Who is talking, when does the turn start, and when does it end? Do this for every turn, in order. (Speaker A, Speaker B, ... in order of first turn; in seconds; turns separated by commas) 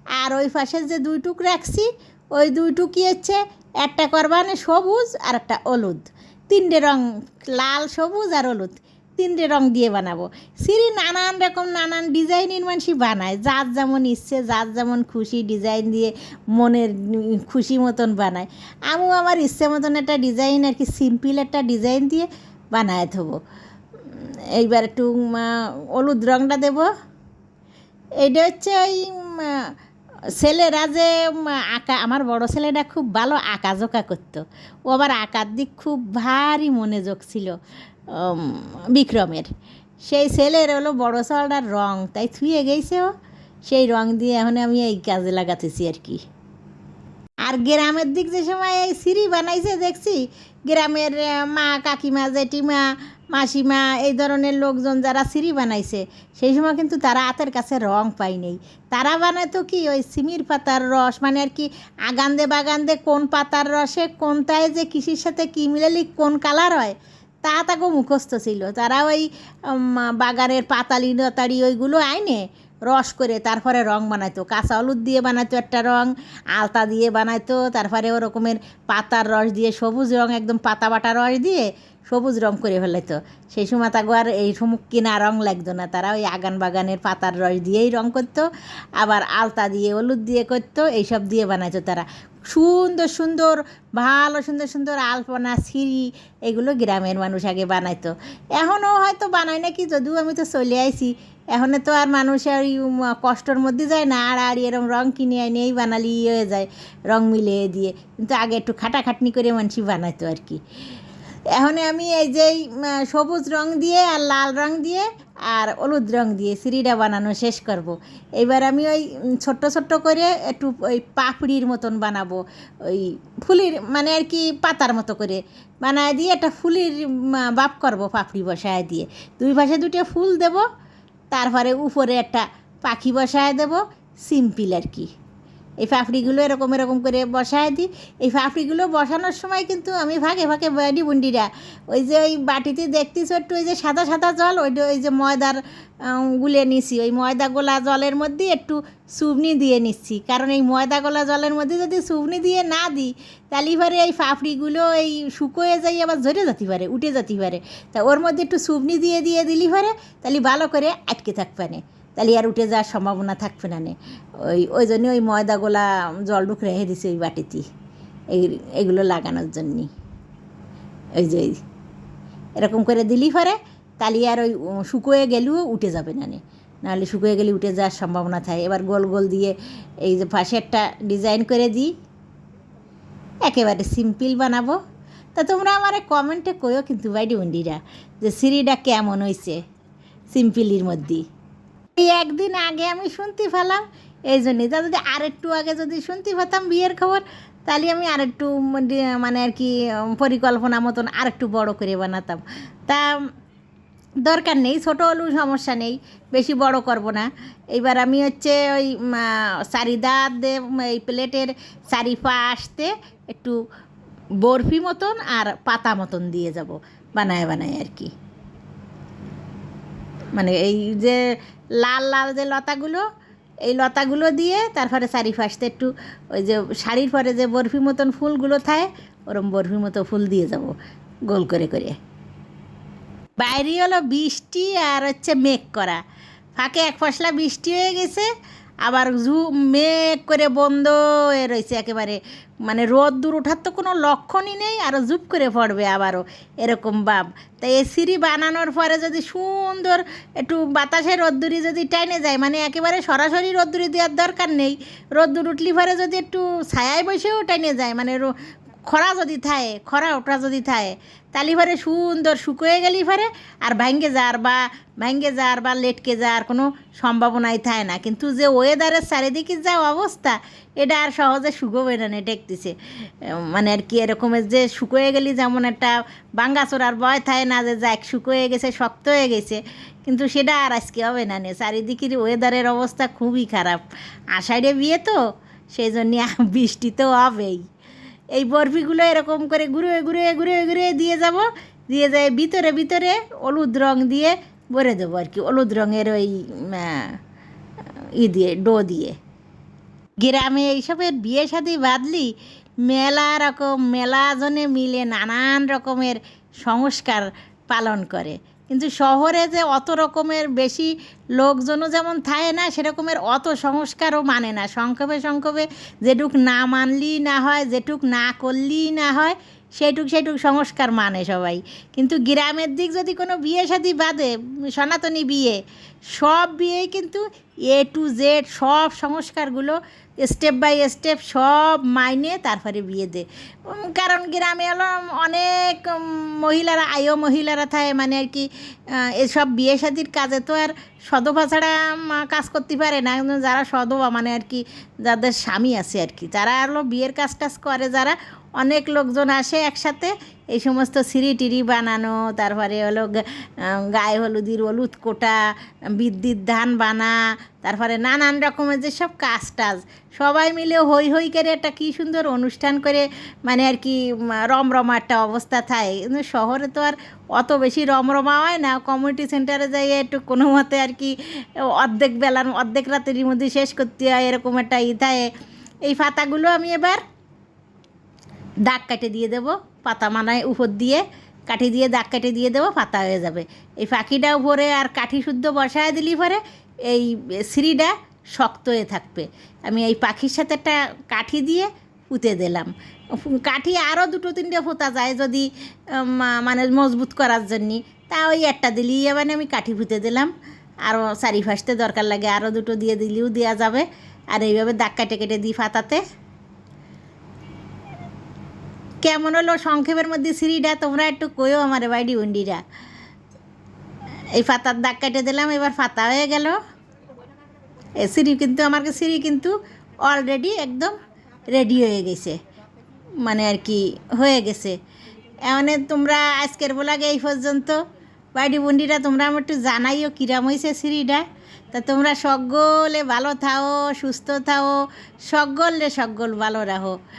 Speaker A: 0.2-23.4, Speaker A: 24.1-26.9, Speaker A: 28.2-29.7, Speaker A: 30.4-37.5, Speaker A: 38.1-39.5, Speaker A: 40.0-43.1, Speaker A: 43.6-46.2, Speaker A: 47.5-110.6, Speaker A: 111.5-130.7, Speaker A: 131.3-135.1, Speaker A: 135.8-167.7, Speaker A: 168.3-169.9, Speaker A: 171.2-171.6, Speaker A: 172.6-181.9, Speaker A: 183.5-184.8, Speaker A: 185.3-189.6, Speaker A: 190.3-191.2, Speaker A: 192.0-203.3, Speaker A: 204.2-213.6, Speaker A: 214.4-218.1, Speaker A: 220.3-223.0, Speaker A: 223.7-230.7, Speaker A: 231.3-232.0, Speaker A: 233.4-236.0, Speaker A: 236.6-238.3, Speaker A: 238.8-258.3, Speaker A: 258.9-285.2, Speaker A: 285.7-287.7, Speaker A: 288.4-297.2, Speaker A: 298.2-299.2, Speaker A: 300.2-302.3, Speaker A: 302.9-325.6, Speaker A: 326.1-375.3, Speaker A: 375.9-377.0, Speaker A: 378.7-400.3, Speaker A: 400.9-406.0, Speaker A: 409.0-412.6, Speaker A: 414.3-416.6, Speaker A: 418.0-420.9, Speaker A: 421.5-422.4, Speaker A: 423.2-424.8, Speaker A: 425.5-427.8, Speaker A: 428.4-437.0